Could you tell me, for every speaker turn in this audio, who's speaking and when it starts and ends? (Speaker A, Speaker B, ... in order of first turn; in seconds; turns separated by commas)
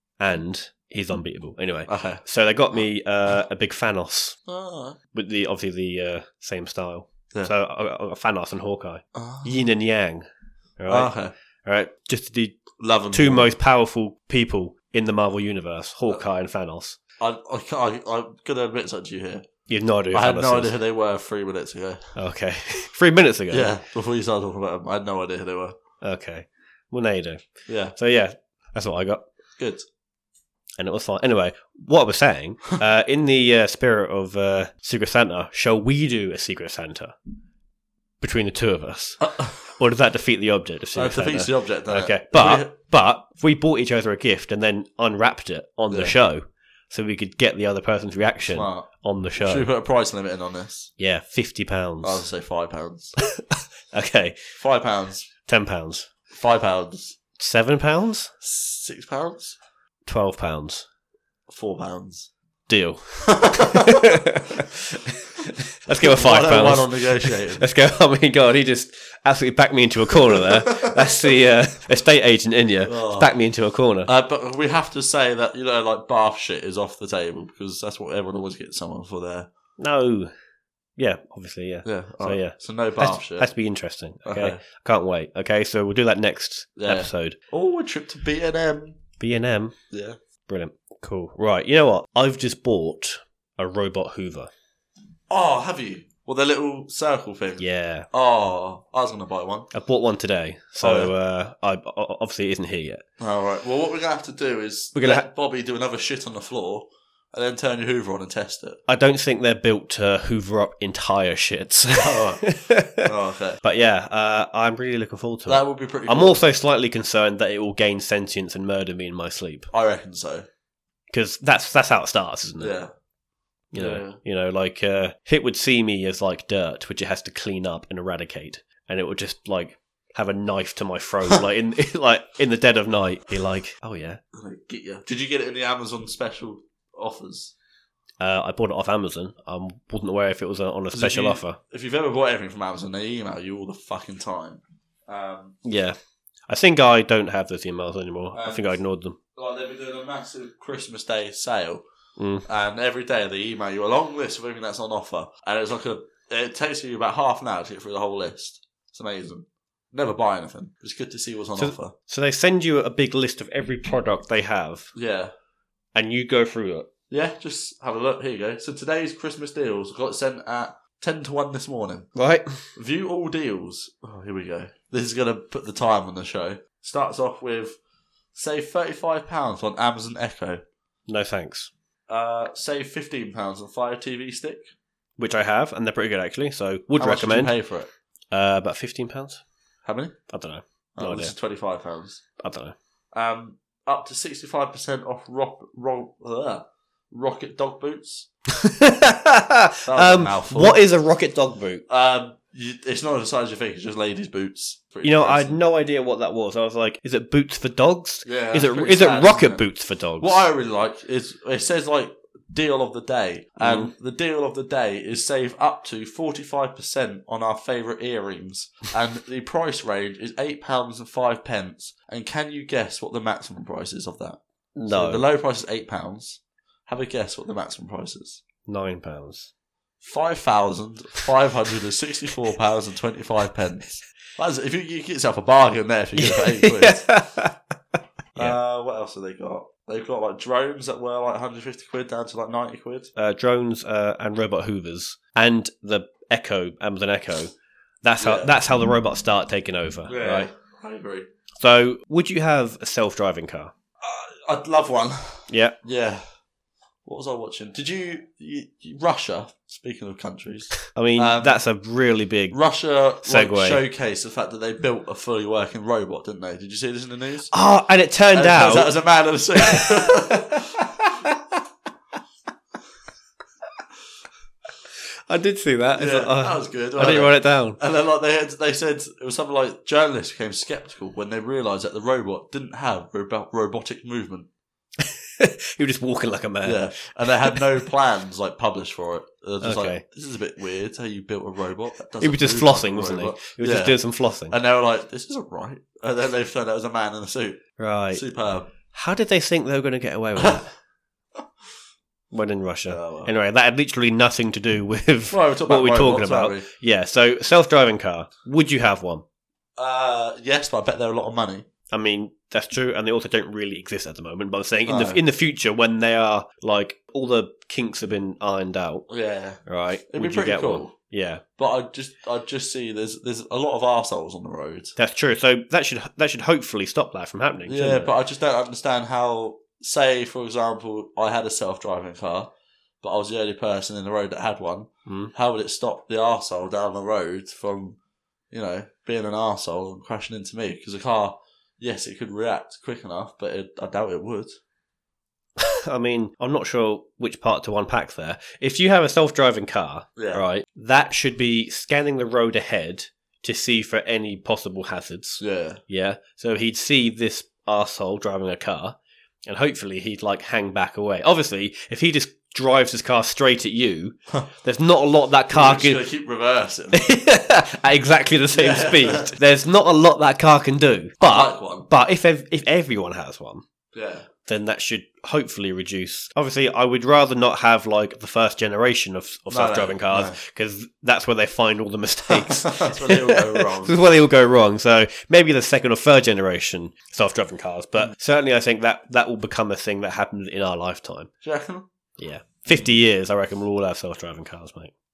Speaker A: 0.2-4.4, Speaker B: 1.9-2.2, Speaker B: 4.5-5.0, Speaker A: 5.1-10.3, Speaker B: 9.1-9.5, Speaker A: 10.8-17.0, Speaker B: 10.9-11.3, Speaker B: 12.8-13.5, Speaker B: 17.2-19.4, Speaker A: 19.7-20.8, Speaker B: 20.1-22.2, Speaker A: 22.2-23.8, Speaker B: 23.5-25.8, Speaker A: 26.0-29.2, Speaker B: 27.7-28.0, Speaker B: 29.6-29.9, Speaker A: 30.8-37.1, Speaker A: 38.2-49.7, Speaker B: 39.2-39.6, Speaker B: 41.0-42.7, Speaker B: 45.9-46.2, Speaker B: 48.5-50.9, Speaker A: 51.0-52.2, Speaker B: 52.0-53.2, Speaker A: 53.9-54.4, Speaker B: 54.6-55.3, Speaker A: 55.5-56.1, Speaker B: 56.3-57.2, Speaker A: 57.4-58.3, Speaker B: 58.4-59.6, Speaker A: 60.1-60.9, Speaker B: 61.5-62.3, Speaker A: 62.7-74.1, Speaker B: 63.3-64.2, Speaker B: 66.0-67.7, Speaker B: 70.3-71.1, Speaker B: 72.9-73.4, Speaker B: 74.1-79.5, Speaker A: 79.8-80.3, Speaker A: 81.0-87.4, Speaker B: 81.8-83.5, Speaker B: 84.2-84.6, Speaker B: 86.8-89.0, Speaker A: 89.2-89.8, Speaker B: 89.9-90.2, Speaker A: 90.5-94.5, Speaker B: 95.3-99.7, Speaker A: 97.6-98.1, Speaker A: 99.7-103.0, Speaker B: 100.8-101.1, Speaker B: 103.2-108.8, Speaker A: 105.0-105.3, Speaker A: 108.9-113.1, Speaker B: 112.0-112.4, Speaker B: 113.0-113.6, Speaker A: 113.6-119.7, Speaker B: 115.5-116.4, Speaker B: 119.7-120.5, Speaker A: 121.1-122.8, Speaker B: 122.6-122.9, Speaker A: 123.7-134.2, Speaker B: 123.7-124.2, Speaker B: 134.3-137.5, Speaker A: 138.2-141.6, Speaker B: 140.9-145.6, Speaker A: 145.7-146.0, Speaker A: 146.5-149.2, Speaker B: 148.3-148.8, Speaker B: 149.3-151.8, Speaker A: 152.2-152.5, Speaker B: 152.5-161.9, Speaker A: 161.6-164.9, Speaker B: 164.9-165.3, Speaker A: 165.9-166.9, Speaker B: 167.1-172.1, Speaker A: 172.2-172.6, Speaker B: 172.8-177.8, Speaker B: 178.3-180.6, Speaker A: 181.1-181.7, Speaker B: 182.1-184.7, Speaker A: 185.2-187.5, Speaker B: 187.0-187.9, Speaker A: 188.3-189.4, Speaker B: 189.8-190.2, Speaker A: 190.3-191.3, Speaker B: 191.0-192.2, Speaker A: 192.4-192.8, Speaker B: 193.1-198.3, Speaker A: 198.6-201.8, Speaker B: 199.9-200.8, Speaker B: 201.9-205.6, Speaker A: 205.0-210.4, Speaker B: 208.2-209.7, Speaker B: 210.2-228.4, Speaker A: 213.6-213.9, Speaker A: 224.8-225.2, Speaker A: 228.7-229.5, Speaker B: 230.0-237.2, Speaker A: 236.2-237.6, Speaker B: 238.4-243.1, Speaker A: 243.2-250.5, Speaker B: 248.2-248.5, Speaker B: 250.1-251.3, Speaker A: 251.6-253.7, Speaker B: 254.0-256.2, Speaker A: 255.5-255.8, Speaker B: 257.1-261.6, Speaker A: 260.9-262.6, Speaker B: 262.5-267.5, Speaker A: 263.2-263.8, Speaker A: 267.5-268.9, Speaker B: 268.3-270.7, Speaker A: 269.6-271.4, Speaker A: 275.3-277.8, Speaker B: 276.0-284.5, Speaker A: 285.0-287.6, Speaker B: 286.6-294.0, Speaker A: 289.6-290.0, Speaker A: 292.2-294.6, Speaker B: 294.5-298.7, Speaker A: 297.8-298.2, Speaker A: 298.9-300.7, Speaker A: 302.3-309.2, Speaker B: 302.9-303.3, Speaker B: 305.3-306.7, Speaker B: 309.8-311.7, Speaker A: 311.9-319.1, Speaker B: 314.9-315.2, Speaker B: 319.1-320.9, Speaker A: 319.7-321.4, Speaker B: 321.6-324.9, Speaker A: 325.0-328.1, Speaker B: 327.7-332.5, Speaker B: 333.0-338.0, Speaker A: 335.1-335.3, Speaker B: 338.5-344.6, Speaker A: 345.6-366.0, Speaker B: 350.2-350.4, Speaker B: 355.4-355.8, Speaker B: 365.5-367.1, Speaker A: 366.9-373.6, Speaker B: 368.5-369.4, Speaker B: 371.2-371.9, Speaker B: 373.9-374.3, Speaker A: 374.4-391.3, Speaker B: 379.5-380.4, Speaker B: 382.3-384.0, Speaker B: 391.4-391.9, Speaker A: 392.2-394.9